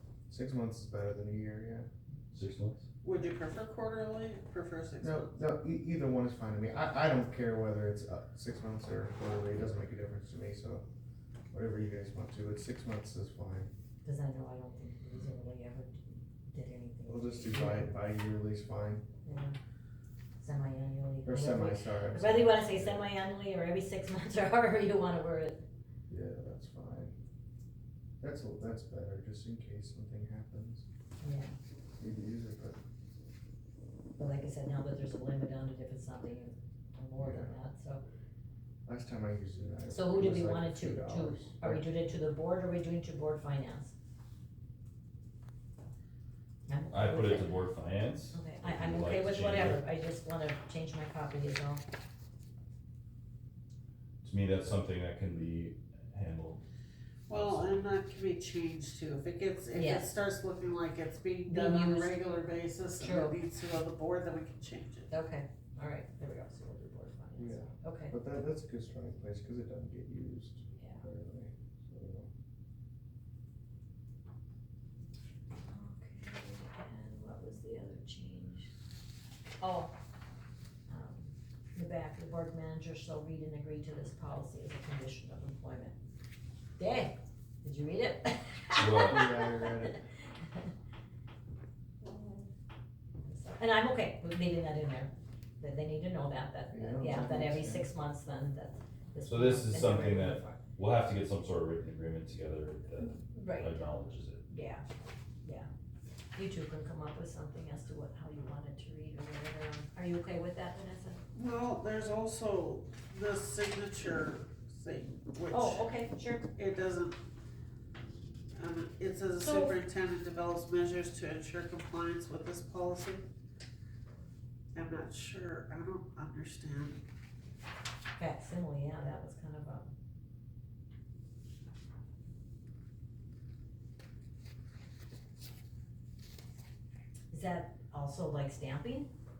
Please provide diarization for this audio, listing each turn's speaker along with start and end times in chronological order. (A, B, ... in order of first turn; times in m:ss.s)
0:00.3-0:01.9 A
0:02.3-0:02.8 B
0:03.0-0:05.4 C
0:05.0-0:10.8 A
0:11.5-0:13.7 A
0:14.0-0:17.9 D
0:17.1-0:19.0 A
0:19.2-0:19.6 D
0:20.4-0:25.6 D
0:21.2-0:23.0 A
0:26.1-0:27.2 A
0:28.2-0:30.8 A
0:31.2-0:31.5 D
0:32.0-0:32.8 A
0:34.2-0:38.0 D
0:37.2-0:37.6 A
0:38.8-0:41.8 A
0:39.9-0:43.9 D
0:46.7-0:47.5 D
0:46.9-0:49.8 B
0:48.3-0:51.8 D
0:54.2-0:56.6 B
0:57.3-1:05.1 C
0:57.3-0:57.7 B
0:59.7-1:00.1 D
1:01.5-1:02.2 D
1:03.0-1:03.4 D
1:05.1-1:08.1 D
1:07.4-1:12.3 A
1:10.8-1:11.0 D
1:15.7-1:18.7 D
1:19.6-1:19.9 D
1:20.9-1:26.0 D
1:26.8-1:30.7 D
1:28.7-1:29.2 B
1:29.0-1:30.0 A
1:33.2-1:40.6 D
1:36.7-1:37.9 A
1:39.3-1:44.4 B
1:43.0-1:43.9 D
1:44.5-1:44.8 D
1:45.4-1:45.7 D
1:46.3-1:51.2 D
1:51.3-1:55.9 C
1:55.5-1:56.4 D
1:56.6-1:57.2 C
1:58.6-2:03.3 C
1:59.4-1:59.7 D
2:04.7-2:07.0 C
2:08.2-2:09.9 D
2:17.3-2:19.1 D